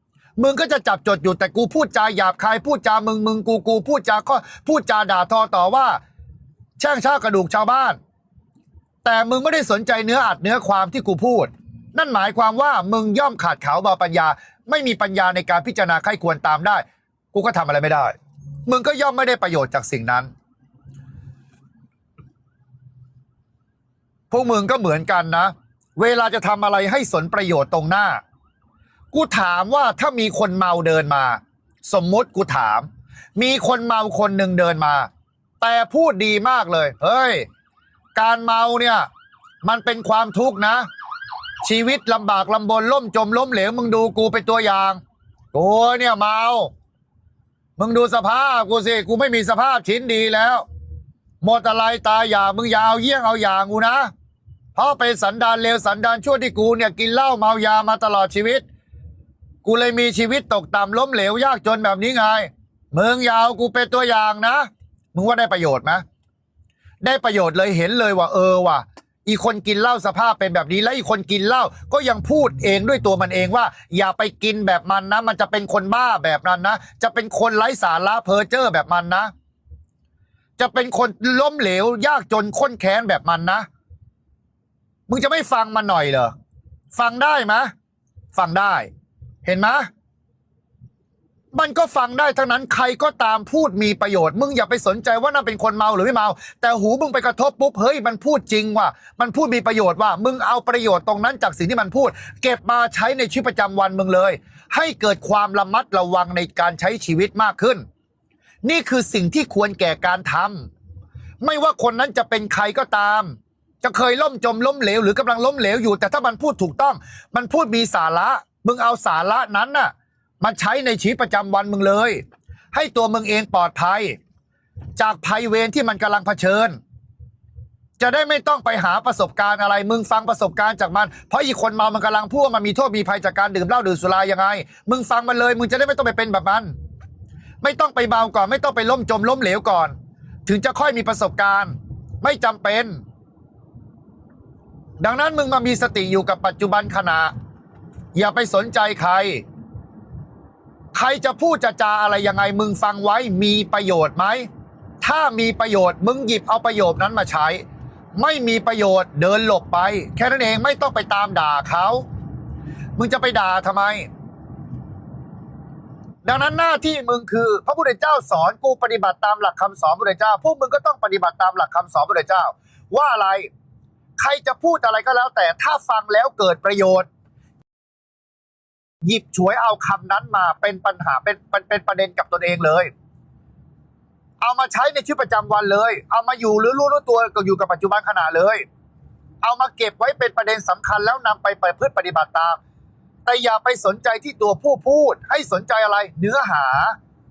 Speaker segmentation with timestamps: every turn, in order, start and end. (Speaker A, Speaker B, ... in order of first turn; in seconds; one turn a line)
Speaker A: 0.4-6.0
Speaker A: 6.8-8.0
Speaker A: 9.0-18.1
Speaker A: 18.6-20.3
Speaker A: 24.3-28.2
Speaker A: 29.1-35.1
Speaker A: 35.6-37.5
Speaker A: 38.1-39.1
Speaker A: 39.6-40.9
Speaker A: 41.6-45.0
Speaker A: 45.5-46.7
Speaker A: 47.8-50.6
Speaker A: 51.4-54.1
Speaker A: 54.7-58.6
Speaker A: 59.6-66.0
Speaker A: 67.0-79.3
Speaker A: 80.6-83.7
Speaker A: 85.1-86.3
Speaker A: 86.9-87.7
Speaker A: 88.3-88.9
Speaker A: 89.4-89.9
Speaker A: 91.5-107.8
Speaker A: 108.6-110.7
Speaker A: 111.4-122.2
Speaker A: 122.7-124.2
Speaker A: 125.0-126.8
Speaker A: 128.0-136.7
Speaker A: 137.6-143.0
Speaker A: 145.0-147.3
Speaker A: 148.1-149.4
Speaker A: 150.9-154.5
Speaker A: 155.0-157.6
Speaker A: 158.1-162.0
Speaker A: 162.9-164.1
Speaker A: 166.2-173.5
Speaker A: 174.2-177.1
Speaker A: 179.0-182.9
Speaker A: 184.4-188.6
Speaker A: 189.4-192.6
Speaker A: 193.2-196.9